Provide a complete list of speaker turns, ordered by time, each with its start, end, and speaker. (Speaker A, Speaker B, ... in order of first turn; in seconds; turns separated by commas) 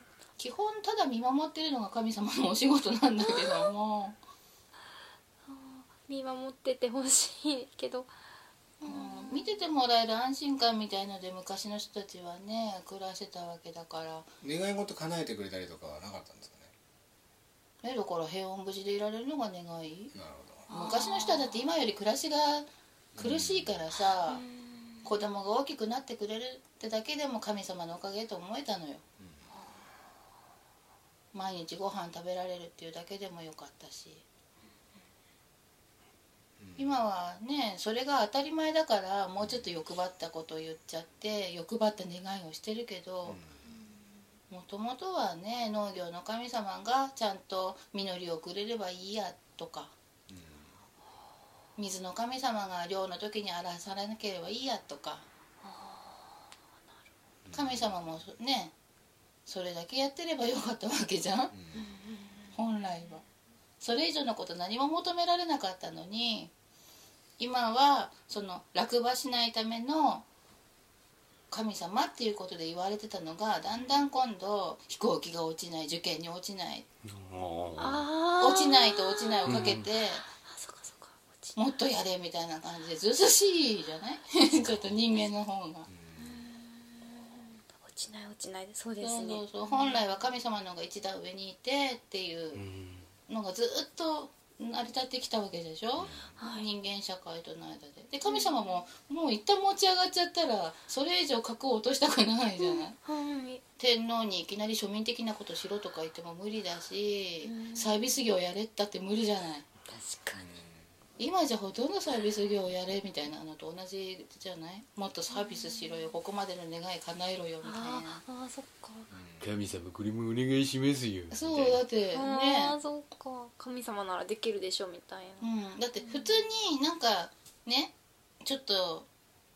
Speaker A: 0.4-4.2, Speaker B: 3.3-3.7, Speaker B: 5.5-8.1, Speaker A: 8.8-14.3, Speaker B: 8.8-9.5, Speaker C: 14.4-16.7, Speaker A: 17.8-20.1, Speaker C: 20.1-20.7, Speaker B: 20.7-21.6, Speaker A: 20.7-24.4, Speaker C: 23.1-23.7, Speaker B: 24.2-24.9, Speaker A: 25.0-29.0, Speaker A: 31.3-34.2, Speaker C: 36.6-37.0, Speaker A: 36.8-43.4, Speaker C: 39.4-39.6, Speaker C: 43.3-43.6, Speaker A: 44.5-49.9, Speaker C: 50.3-50.7, Speaker A: 51.8-55.2, Speaker B: 55.6-56.2, Speaker C: 57.5-57.9, Speaker A: 57.5-58.7, Speaker A: 59.5-61.5, Speaker C: 61.5-61.8, Speaker B: 61.7-62.5, Speaker A: 62.5-63.2, Speaker A: 63.8-66.5, Speaker A: 67.4-70.2, Speaker A: 71.5-76.8, Speaker D: 77.0-78.1, Speaker B: 77.8-79.8, Speaker A: 78.4-80.3, Speaker D: 79.5-79.8, Speaker B: 80.4-81.6, Speaker A: 81.5-85.9, Speaker C: 84.6-84.9, Speaker C: 85.9-86.4, Speaker B: 86.2-90.0, Speaker A: 89.0-92.6, Speaker D: 92.5-93.0, Speaker A: 93.3-103.0, Speaker C: 96.0-96.3, Speaker B: 96.4-96.7, Speaker B: 98.2-98.5, Speaker B: 102.6-103.6, Speaker A: 103.8-109.7, Speaker B: 107.4-108.0, Speaker B: 109.9-110.4, Speaker C: 110.3-110.8, Speaker A: 111.2-118.2, Speaker B: 115.3-116.0, Speaker B: 117.6-119.1, Speaker C: 119.1-119.5, Speaker D: 119.4-121.6, Speaker A: 121.3-122.7, Speaker B: 122.1-125.5, Speaker A: 125.4-129.1, Speaker B: 126.0-126.3